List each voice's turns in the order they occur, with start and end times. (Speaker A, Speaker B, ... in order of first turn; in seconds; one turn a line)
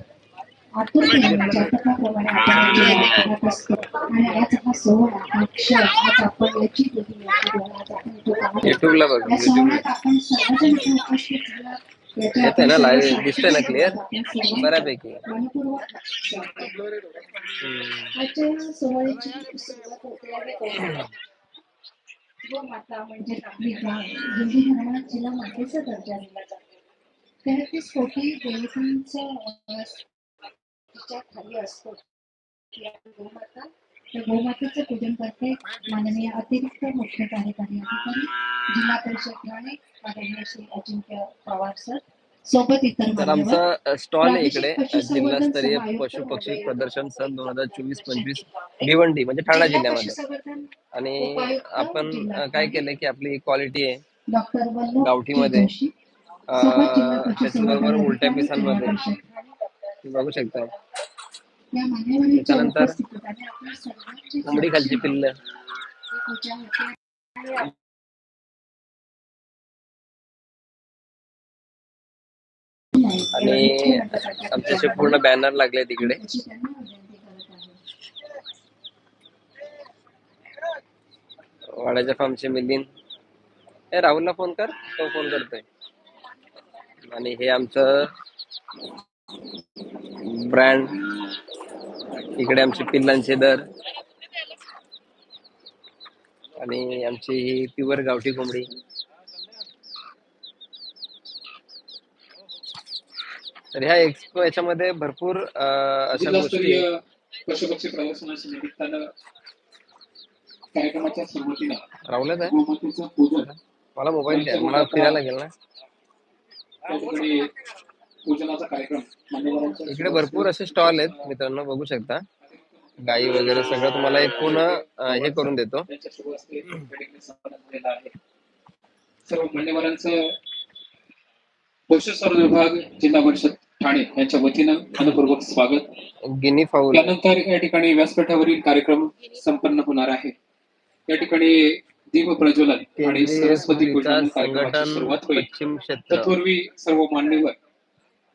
Speaker A: 0.8-16.7
Speaker B: 8.6-9.8
Speaker B: 12.4-14.0
Speaker B: 14.6-15.2
Speaker B: 17.6-18.1
Speaker A: 18.1-21.1
Speaker A: 22.4-26.6
Speaker A: 27.4-30.1
Speaker A: 30.9-32.0
Speaker A: 32.7-43.6
Speaker B: 43.2-50.2
Speaker A: 44.2-48.9
Speaker A: 49.5-50.7
Speaker B: 51.0-54.0
Speaker A: 51.2-52.9
Speaker A: 54.3-55.9
Speaker B: 55.0-55.7
Speaker B: 56.5-59.0
Speaker A: 56.6-59.3
Speaker B: 60.0-60.7
Speaker A: 61.7-65.2
Speaker B: 62.4-63.0
Speaker B: 64.5-65.3
Speaker A: 66.1-67.0
Speaker A: 72.9-75.2
Speaker B: 73.4-76.2
Speaker A: 76.0-77.8
Speaker B: 81.8-82.9
Speaker B: 83.9-85.6
Speaker B: 87.1-87.9
Speaker B: 90.2-90.9
Speaker B: 92.4-93.6
Speaker B: 96.6-98.7
Speaker B: 103.7-106.8
Speaker C: 106.1-109.1
Speaker C: 110.8-111.8
Speaker B: 112.1-112.6
Speaker C: 112.4-113.5
Speaker B: 113.4-115.5
Speaker C: 114.3-115.2
Speaker C: 116.9-117.5
Speaker C: 118.3-121.3
Speaker B: 119.9-122.3
Speaker C: 122.4-128.2
Speaker B: 123.0-125.9
Speaker C: 129.3-130.3
Speaker C: 131.9-135.9
Speaker B: 136.3-137.2
Speaker C: 136.9-140.3
Speaker C: 141.1-145.5
Speaker B: 143.0-146.3
Speaker C: 146.1-147.6